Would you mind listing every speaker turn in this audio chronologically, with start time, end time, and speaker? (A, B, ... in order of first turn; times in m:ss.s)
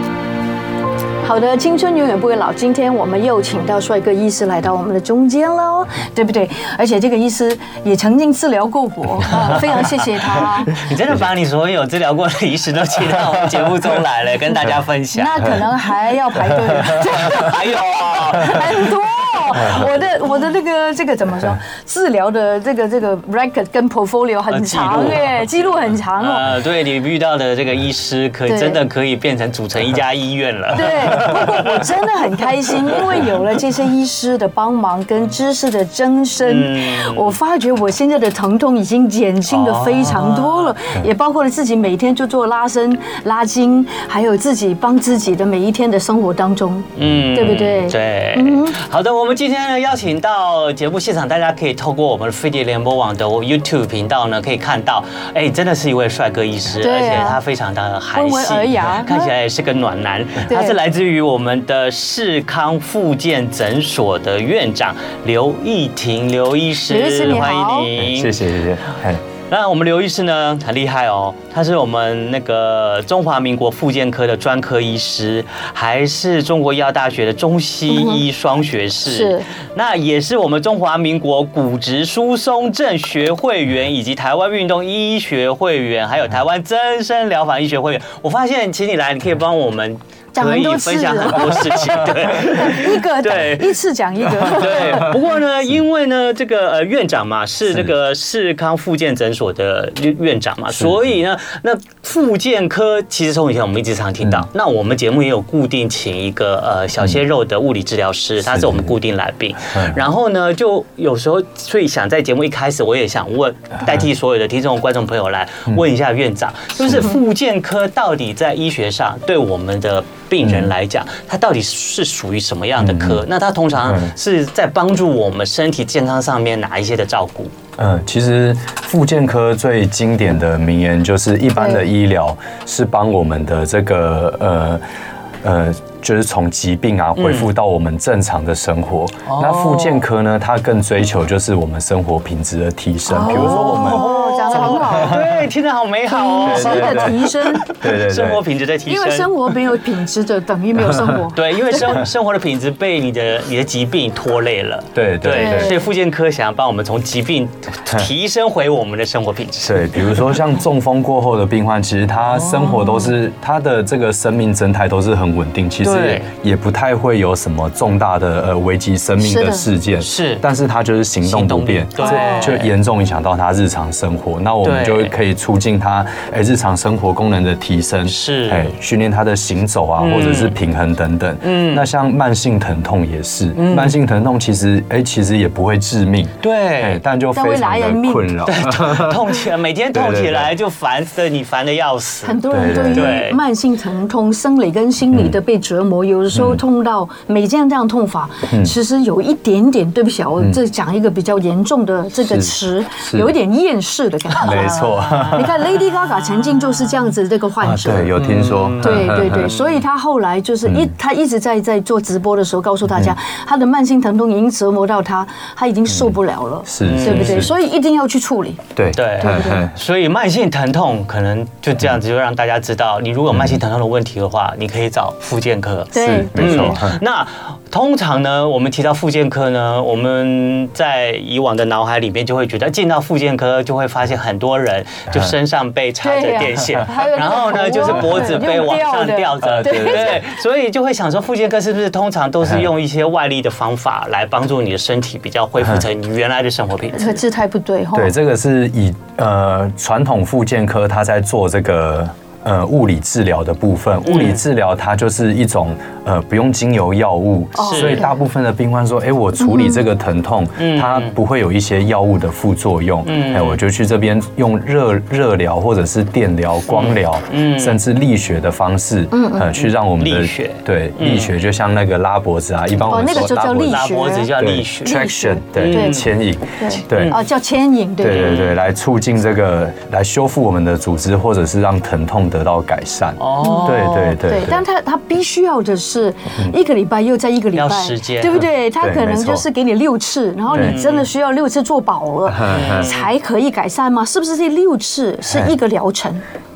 0:01.2-0:10.8 A
0:09.3-0:09.9 B
0:10.7-0:15.6 B
0:15.1-0:26.4 A
0:17.0-0:18.9 B
0:24.5-0:25.4 B
0:26.2-0:31.9 B
0:28.5-0:28.8 A
0:30.7-0:48.8 A
0:32.9-0:33.2 B
0:36.4-0:37.3 B
0:39.5-0:40.8 B
0:47.0-1:08.4 B
0:56.8-0:57.4 A
0:58.2-0:59.3 A
1:00.5-1:00.8 A
1:06.9-1:07.9 A
1:08.0-1:09.2 C
1:09.5-1:33.8 B
1:17.9-1:18.2 A
1:19.1-1:19.5 A
1:30.4-1:35.2 A
1:34.4-2:07.5 B
1:48.5-1:48.9 C
1:49.7-1:50.0 C
1:56.8-1:57.2 C
2:00.4-2:00.7 C
2:02.8-2:03.2 C
2:03.8-2:04.1 C
2:07.8-2:14.8 C
2:11.6-2:11.8 A
2:15.4-2:25.3 C
2:17.2-2:17.5 B
2:19.3-2:20.0 B
2:23.1-2:25.2 A
2:23.2-2:29.5 B
2:26.1-2:27.8 A
2:26.4-2:28.4 C
2:28.9-2:32.0 A
2:31.3-2:40.2 B
2:35.0-2:35.8 C
2:35.3-2:35.8 A
2:39.6-3:09.2 C
2:45.8-2:46.3 B
2:49.2-2:49.7 A
2:50.0-2:50.4 B
2:51.2-2:52.7 B
2:52.0-2:52.6 A
2:54.6-2:55.2 B
2:58.1-2:58.7 B
3:00.0-3:00.6 B
3:01.4-3:01.9 B
3:03.6-3:04.0 B
3:06.4-3:07.0 B
3:07.3-3:08.3 A
3:08.4-3:13.4 B
3:09.9-3:10.5 C
3:12.2-3:28.1 A
3:12.5-3:13.2 C
3:15.1-3:15.4 C
3:16.3-3:16.6 C
3:18.5-3:18.8 C
3:22.2-3:23.3 C
3:24.4-3:25.5 C
3:24.5-3:25.4 B
3:27.6-3:29.5 C
3:28.2-3:29.6 B
3:28.8-3:38.6 A
3:30.7-3:30.9 C
3:35.9-3:36.1 C
3:36.7-3:37.5 C
3:36.9-3:37.5 B
3:38.8-3:39.8 C
3:39.0-4:07.2 B
3:39.2-3:39.6 A
3:43.3-3:43.6 C
3:45.9-3:46.8 A
3:46.0-3:47.0 C
3:56.0-4:00.3 A
3:59.4-4:00.2 C
4:06.9-4:08.1 A
4:07.9-4:37.2 C
4:14.1-4:14.4 B
4:17.6-4:18.1 A
4:17.6-4:18.0 B
4:19.4-4:19.8 A
4:20.6-4:21.1 B
4:23.1-4:23.6 B
4:26.7-4:27.8 B
4:29.1-4:29.5 A
4:29.6-4:31.3 B
4:32.8-4:34.3 A
4:33.1-4:36.1 B
4:34.8-4:36.1 A
4:36.6-4:38.4 A
4:36.9-4:37.2 B
4:38.0-4:44.6 C
4:38.0-4:38.6 B
4:43.2-4:44.1 B
4:43.4-4:56.2 A
4:47.6-4:48.5 B
4:48.8-4:49.5 C
4:50.5-4:51.1 B
4:52.3-4:52.9 C
4:52.5-4:53.1 B